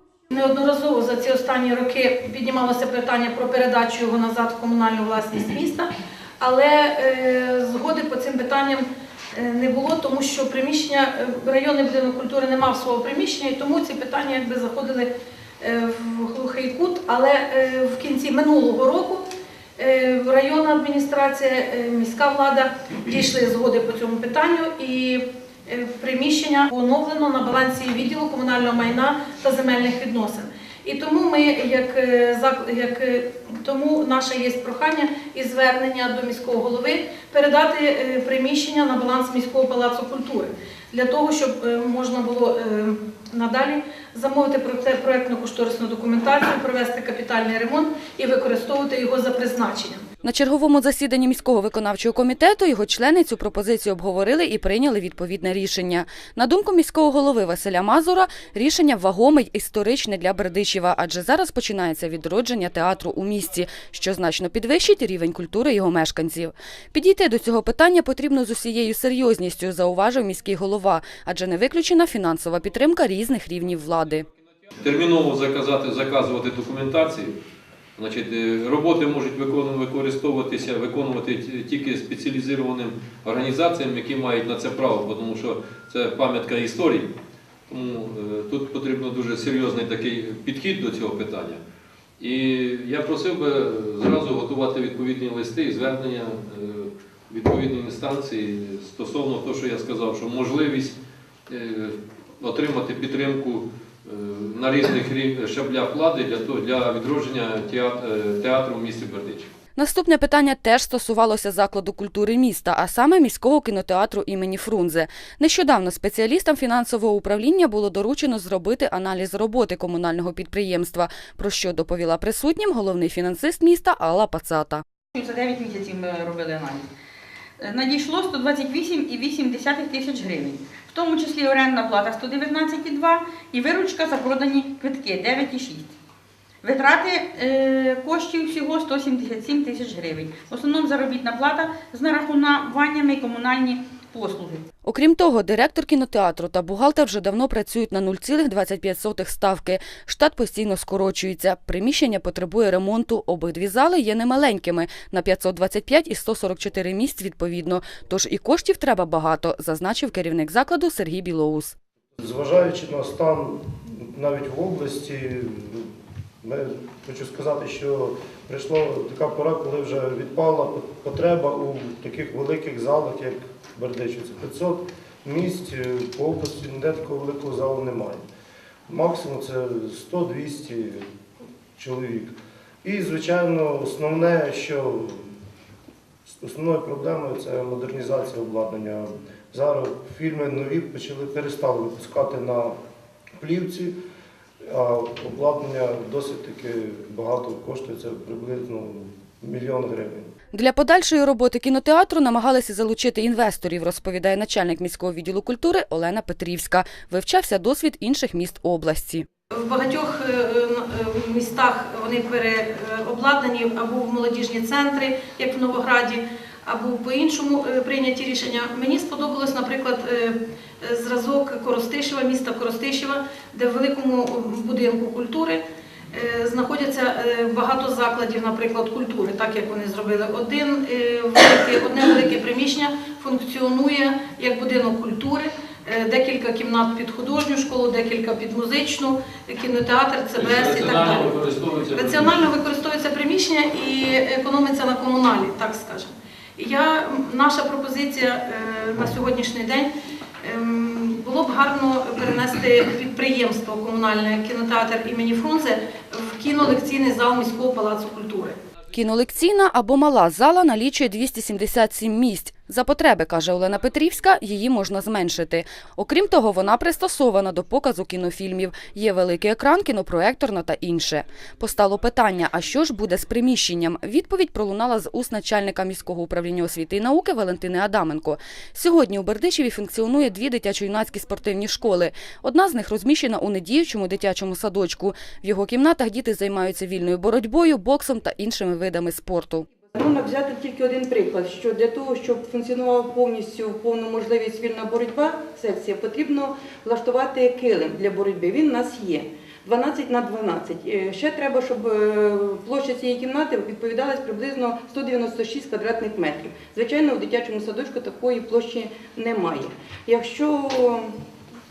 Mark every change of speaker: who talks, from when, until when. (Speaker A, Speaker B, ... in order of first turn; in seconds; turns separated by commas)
Speaker A: 0.3-5.9, Speaker A: 6.4-15.1, Speaker A: 15.6-19.2, Speaker A: 19.8-50.0, Speaker B: 50.2-74.3, Speaker C: 74.8-77.3, Speaker C: 78.0-87.1, Speaker C: 87.7-91.6, Speaker C: 92.2-101.0, Speaker C: 101.5-109.5, Speaker B: 109.8-124.8, Speaker D: 125.1-126.9, Speaker D: 127.6-135.9, Speaker D: 136.6-144.7, Speaker B: 144.9-161.8, Speaker E: 162.2-165.9, Speaker E: 166.4-178.2, Speaker E: 178.9-181.1, Speaker E: 181.8-185.3, Speaker E: 186.3-192.8, Speaker E: 193.4-194.0, Speaker E: 194.7-200.3, Speaker B: 200.5-209.3, Speaker A: 209.6-225.6, Speaker A: 226.1-249.9, Speaker C: 240.4-242.5, Speaker A: 250.4-258.6, Speaker B: 258.9-289.7, Speaker F: 289.9-311.1